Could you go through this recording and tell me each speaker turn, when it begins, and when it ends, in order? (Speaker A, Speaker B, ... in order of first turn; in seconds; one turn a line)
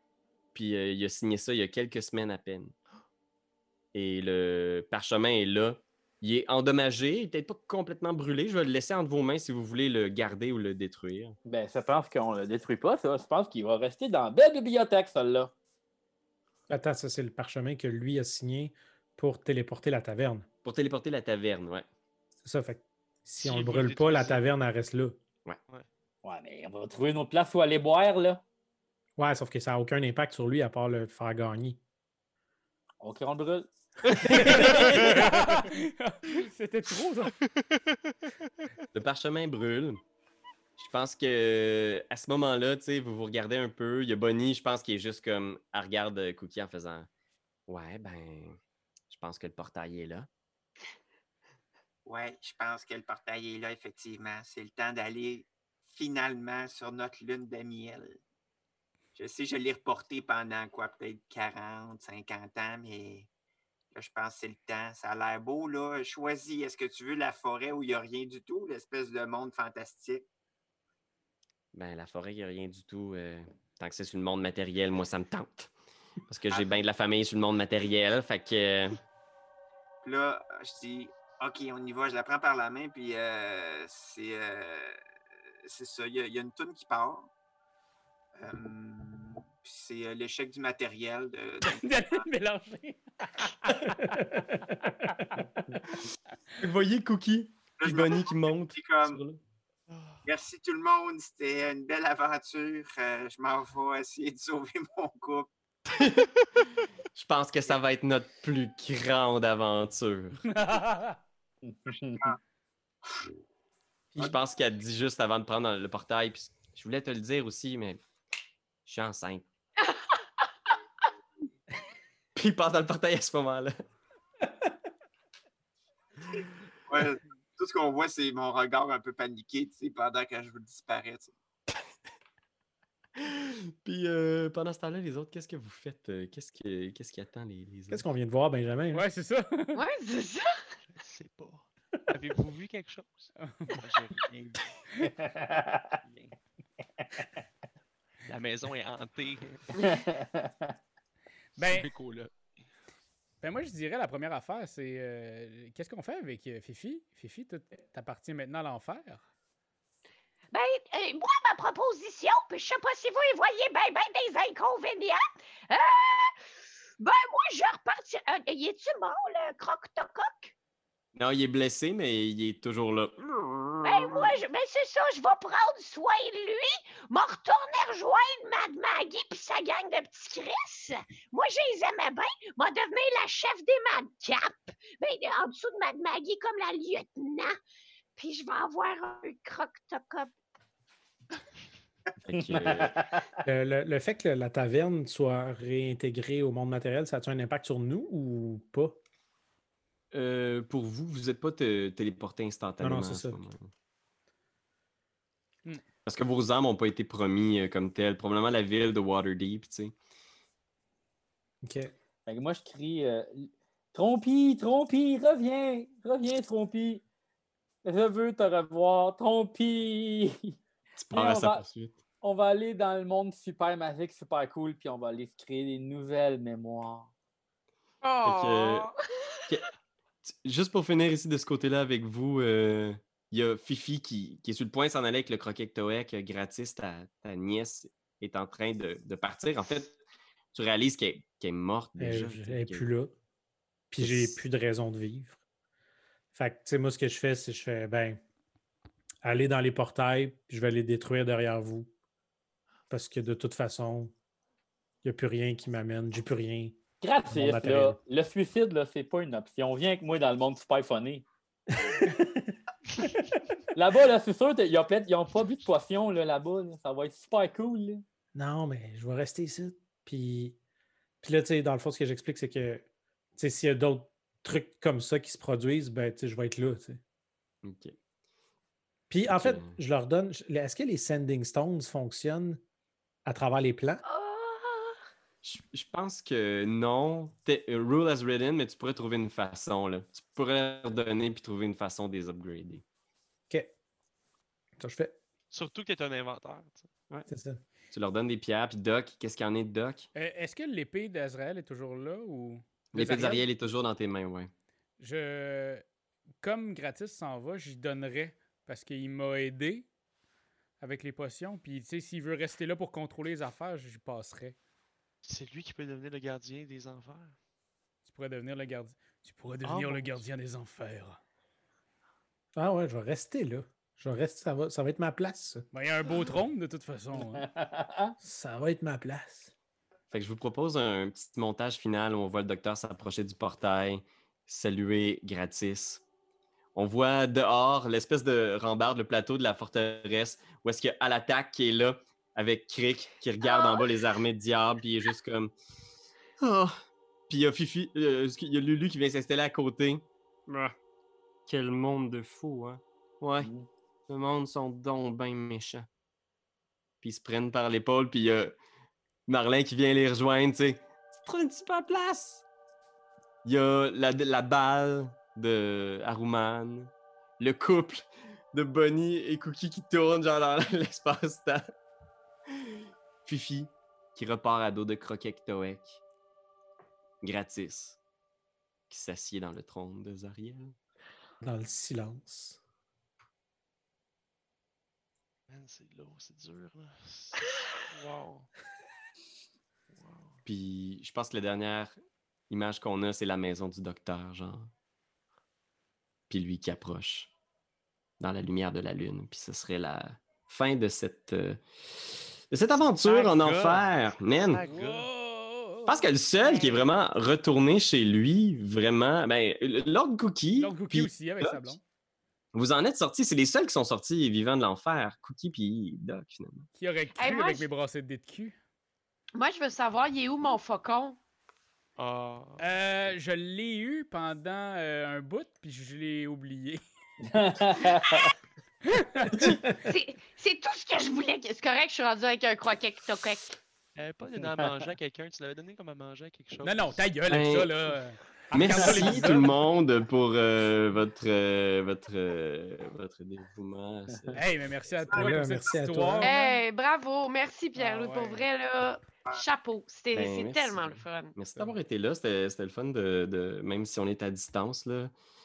Speaker A: 0.5-2.7
Speaker A: 3.9-11.4
Speaker B: 11.5-15.5
Speaker C: 16.7-20.5
Speaker A: 20.6-21.9
Speaker C: 22.4-25.2
Speaker D: 23.4-24.4
Speaker B: 26.2-28.4
Speaker C: 29.2-31.8
Speaker B: 33.0-33.7
Speaker D: 34.3-35.3
Speaker E: 34.3-37.4
Speaker B: 34.3-35.0
Speaker D: 37.4-38.1
Speaker A: 38.9-40.0
Speaker A: 40.8-47.1
Speaker A: 47.7-48.6
Speaker A: 49.1-50.3
Speaker F: 52.1-58.2
Speaker F: 59.1-63.3
Speaker F: 63.9-70.3
Speaker A: 71.7-75.7
Speaker A: 76.3-79.0
Speaker F: 80.0-85.0
Speaker F: 85.6-87.3
Speaker F: 88.4-92.3
Speaker E: 91.6-95.4
Speaker C: 94.1-94.3
Speaker A: 96.6-99.4
Speaker F: 97.8-99.2
Speaker D: 99.9-100.2
Speaker F: 100.2-105.5
Speaker A: 105.9-106.3
Speaker A: 107.2-110.4
Speaker E: 110.5-111.2
Speaker B: 111.6-112.3
Speaker A: 114.2-118.0
Speaker A: 118.9-119.5
Speaker A: 122.4-123.7
Speaker F: 126.9-131.3
Speaker A: 133.2-138.1
Speaker C: 137.9-139.1
Speaker E: 138.9-139.8
Speaker G: 139.8-140.5
Speaker D: 140.9-144.7
Speaker E: 143.5-143.8
Speaker B: 145.2-145.9
Speaker D: 146.0-146.4
Speaker D: 148.3-149.8
Speaker B: 149.8-150.7
Speaker E: 151.6-151.9
Speaker D: 151.6-152.3
Speaker E: 153.4-159.2
Speaker H: 160.5-166.3
Speaker H: 167.0-170.5
Speaker A: 171.2-174.3
Speaker H: 173.8-187.5
Speaker H: 188.2-190.3
Speaker A: 192.2-192.9
Speaker B: 192.3-193.3
Speaker C: 193.5-199.0
Speaker A: 200.1-203.7
Speaker C: 202.8-203.4
Speaker A: 206.1-209.9
Speaker C: 211.6-211.9
Speaker B: 212.3-217.0
Speaker B: 217.8-220.5
Speaker A: 221.0-222.0
Speaker B: 221.1-221.7
Speaker B: 222.2-227.1
Speaker G: 228.0-228.9
Speaker A: 228.2-228.9
Speaker A: 230.3-240.0
Speaker A: 240.5-242.9
Speaker C: 242.0-243.1
Speaker C: 243.9-245.4
Speaker A: 244.0-244.4
Speaker C: 246.3-248.2
Speaker C: 249.2-251.9
Speaker C: 252.9-254.1
Speaker C: 255.0-258.0
Speaker B: 257.0-261.3
Speaker C: 261.8-262.4
Speaker B: 263.7-268.0
Speaker C: 268.4-270.6
Speaker C: 271.2-272.9
Speaker C: 273.4-277.0
Speaker A: 277.6-278.0
Speaker C: 279.1-282.6
Speaker A: 279.3-279.8
Speaker C: 283.3-284.0
Speaker H: 284.1-284.9
Speaker A: 285.4-292.8
Speaker C: 294.8-295.2
Speaker D: 295.5-296.9
Speaker C: 297.3-297.6
Speaker A: 297.9-300.1
Speaker E: 300.1-303.4
Speaker A: 302.9-304.5
Speaker E: 305.0-305.8
Speaker E: 306.4-309.9
Speaker E: 310.8-314.6
Speaker D: 315.2-317.4
Speaker E: 318.1-321.2
Speaker D: 319.6-320.2
Speaker C: 322.6-325.6
Speaker E: 325.7-327.5
Speaker B: 327.2-328.1
Speaker C: 328.2-329.5
Speaker A: 330.1-336.0
Speaker A: 336.8-345.5
Speaker A: 346.4-346.8
Speaker A: 347.3-350.8
Speaker A: 351.5-353.5
Speaker B: 353.4-353.7
Speaker A: 354.1-355.9
Speaker A: 357.0-358.6
Speaker A: 359.3-362.4
Speaker A: 363.4-371.7
Speaker A: 372.6-376.0
Speaker A: 377.2-378.0
Speaker A: 378.9-380.7
Speaker C: 381.4-382.6
Speaker D: 385.5-388.5
Speaker D: 389.9-390.4
Speaker A: 390.4-391.9
Speaker A: 392.5-394.7
Speaker A: 396.3-397.3
Speaker A: 398.2-404.6
Speaker D: 403.1-403.9
Speaker D: 404.5-405.1
Speaker E: 404.6-406.0
Speaker A: 405.9-411.8
Speaker E: 410.6-411.8
Speaker A: 412.5-416.7
Speaker E: 416.8-418.6
Speaker G: 417.1-417.7
Speaker G: 419.4-421.2
Speaker D: 422.0-423.1
Speaker E: 422.6-426.8
Speaker B: 427.3-428.3
Speaker E: 428.9-429.5
Speaker G: 429.5-433.6
Speaker D: 434.0-437.0
Speaker E: 436.6-439.6
Speaker A: 437.3-437.7
Speaker A: 438.5-444.5
Speaker E: 444.3-446.3
Speaker F: 445.1-445.7
Speaker C: 445.1-446.3
Speaker G: 446.2-451.4
Speaker E: 447.8-448.4
Speaker A: 450.1-455.1